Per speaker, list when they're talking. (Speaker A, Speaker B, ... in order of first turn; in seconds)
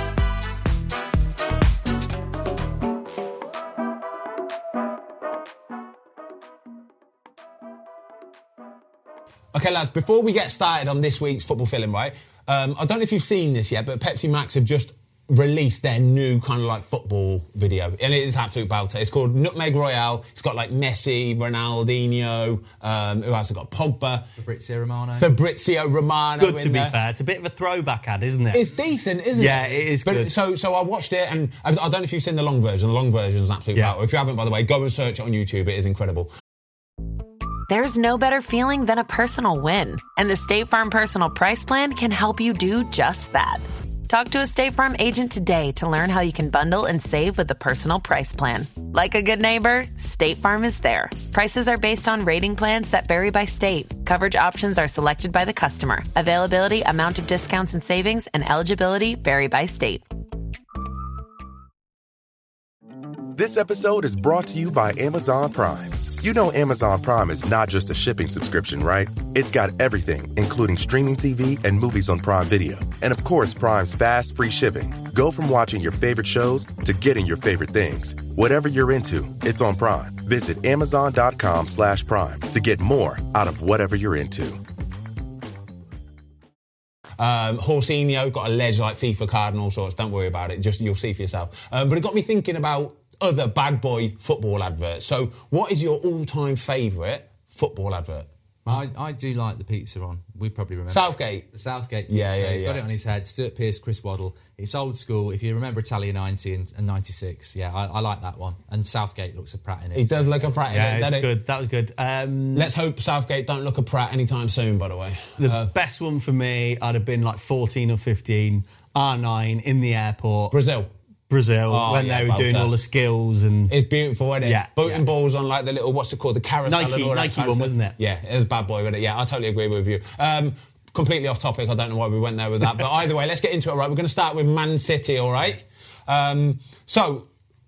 Speaker A: 9.5-24.3, 25.2-27.0, 28.5-36.3, 87.2-98.3, 100.9-101.5, 102.1-102.8, 109.9-111.3, 112.5-115.7, 120.5-120.9, 121.7-122.7, 123.7-137.3
Speaker B: 24.4-25.3, 98.7-110.5
Speaker C: 26.4-28.6, 29.3-30.3, 110.6-112.7, 115.4-120.5, 121.3-123.7, 124.4-125.0, 126.7-128.0
Speaker D: 37.7-60.0
Speaker E: 63.4-84.6